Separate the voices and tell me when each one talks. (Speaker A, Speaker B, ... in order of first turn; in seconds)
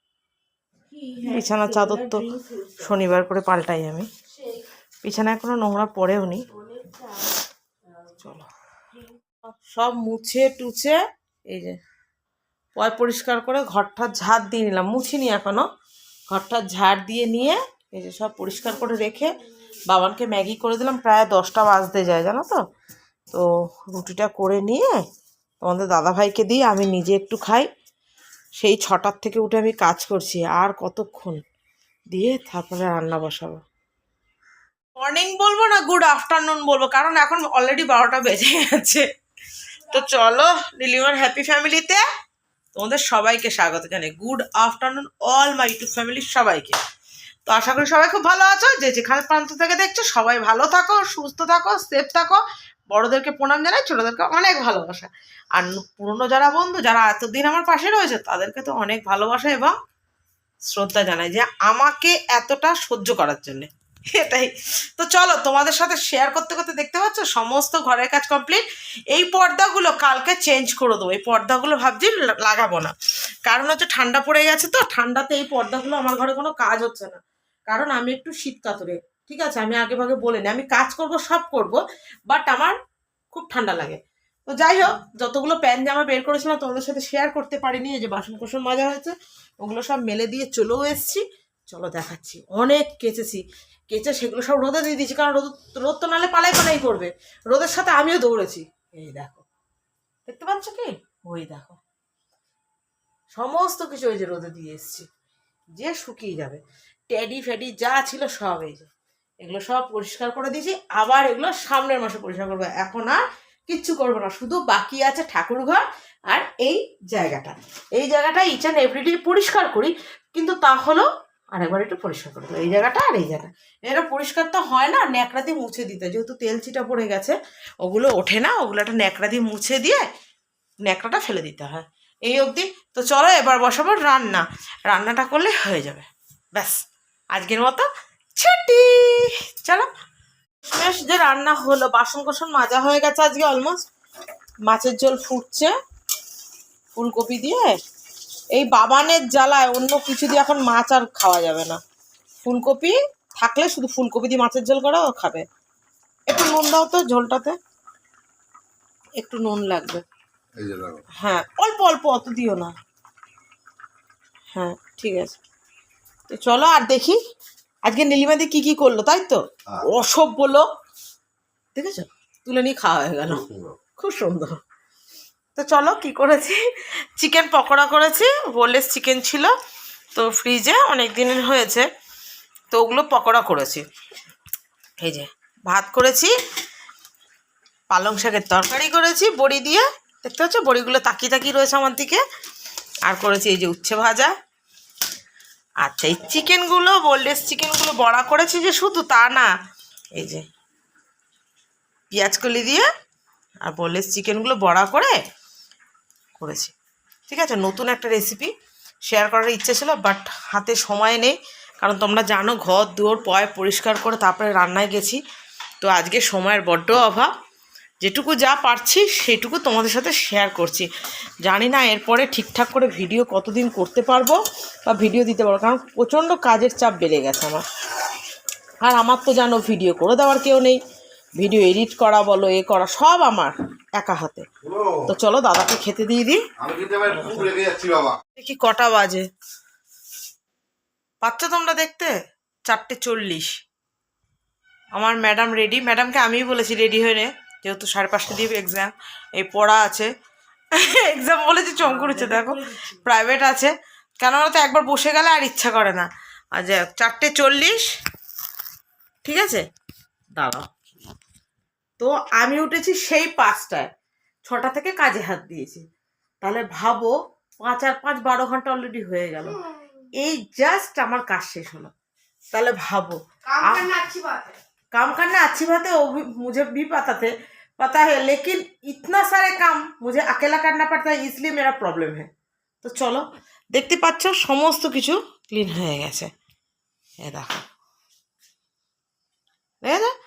Speaker A: 0.9-2.9, 4.3-4.6, 6.5-7.4, 251.9-252.9, 273.5-274.6
Speaker B: 1.2-2.2, 2.8-4.1, 5.0-6.5, 8.2-8.5, 9.4-11.8, 12.8-15.6, 16.3-19.3, 19.9-22.6, 23.3-25.0, 25.6-27.7, 28.6-31.4, 32.1-33.6, 35.0-39.1, 39.9-42.0, 42.7-46.8, 47.5-59.7, 60.6-72.9, 73.5-82.8, 83.3-99.5, 100.2-101.8, 103.3-105.1, 105.8-108.9, 109.4-130.0, 130.8-136.8, 137.3-139.9, 140.6-143.8, 144.7-145.7, 146.9-147.8, 148.5-151.8, 152.4-155.4, 156.3-157.6, 159.2-160.0, 161.2-162.7, 164.5-165.4, 166.3-167.2, 167.8-170.7, 171.7-173.4, 173.9-174.6, 175.5-179.5, 180.1-181.9, 182.7-183.8, 185.0-186.3, 187.9-192.2, 193.1-194.3, 195.8-199.5, 200.2-200.5, 202.1-202.9, 203.6-205.1, 206.4-206.7, 207.3-208.5, 209.1-215.2, 215.8-217.3, 218.0-220.9, 221.4-227.6, 228.8-230.8, 231.4-234.5, 235.1-236.4, 237.1-237.5, 238.3-239.2, 241.2-242.1, 242.7-243.5, 244.9-250.1, 250.7-257.9, 259.2-259.6, 260.4-260.7, 262.0-263.9, 264.4-265.8, 266.4-269.6, 270.2-271.9, 272.5-273.9, 274.9-282.3, 282.8-286.3, 287.2-287.7, 289.8-290.1
Speaker C: 160.5-161.0, 173.3-173.8, 234.6-235.1, 236.6-238.2